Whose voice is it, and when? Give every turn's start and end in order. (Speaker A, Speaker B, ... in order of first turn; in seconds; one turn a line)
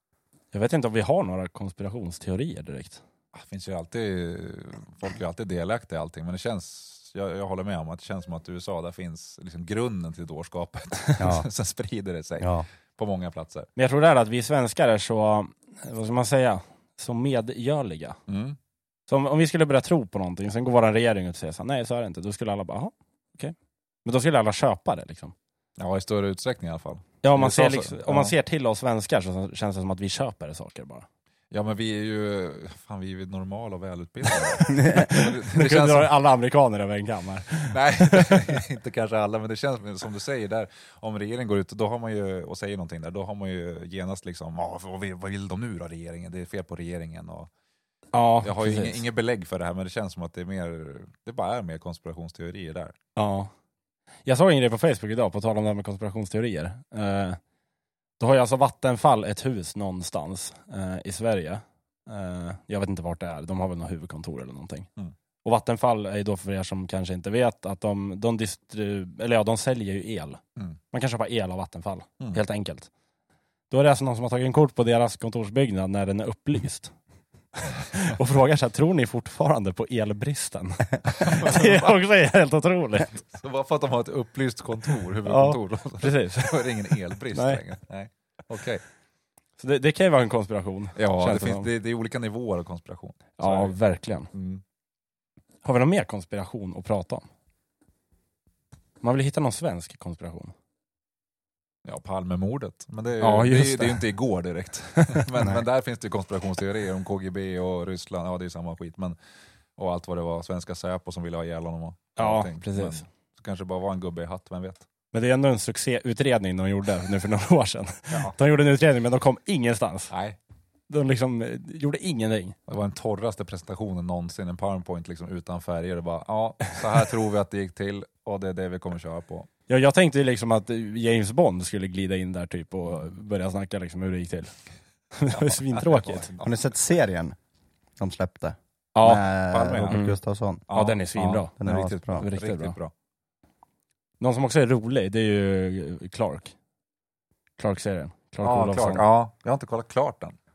Speaker A: 0.5-3.0
Speaker B: 3.3-13.7
Speaker C: 11.2-11.5
Speaker C: 12.4-12.7
Speaker A: 13.8-18.2
Speaker B: 18.3-18.6
Speaker A: 19.1-25.3
Speaker B: 25.8-28.4
Speaker A: 27.2-31.1
Speaker B: 31.5-36.1
Speaker A: 34.6-38.5
Speaker C: 34.7-35.2
Speaker B: 37.7-47.5
Speaker A: 48.1-49.0
Speaker B: 48.4-53.0
Speaker A: 53.2-53.5
Speaker A: 54.3-57.4
Speaker A: 58.2-64.9
Speaker A: 65.4-70.4
Speaker A: 70.9-72.9
Speaker A: 73.7-76.9
Speaker A: 77.6-83.1
Speaker B: 81.1-82.0
Speaker B: 83.2-88.8
Speaker A: 85.3-87.6
Speaker A: 89.6-91.7
Speaker B: 91.0-93.8
Speaker A: 93.4-94.3
Speaker B: 94.3-94.6
Speaker A: 95.6-97.2
Speaker A: 99.0-100.5
Speaker B: 101.8-109.2
Speaker A: 103.2-104.0
Speaker A: 105.1-105.6
Speaker B: 109.8-114.9
Speaker A: 112.2-113.0
Speaker A: 115.1-120.1
Speaker B: 120.1-120.4
Speaker A: 120.9-122.5
Speaker B: 122.7-129.5
Speaker A: 129.7-134.5
Speaker A: 135.1-136.3
Speaker B: 135.3-136.5
Speaker C: 136.4-137.4
Speaker C: 138.0-140.7
Speaker A: 138.9-139.3
Speaker B: 139.5-140.0
Speaker A: 139.8-140.2
Speaker B: 140.7-142.9
Speaker A: 140.7-141.6
Speaker C: 141.6-142.3
Speaker A: 142.2-142.8
Speaker A: 144.2-146.6
Speaker A: 147.6-149.0
Speaker B: 148.4-150.4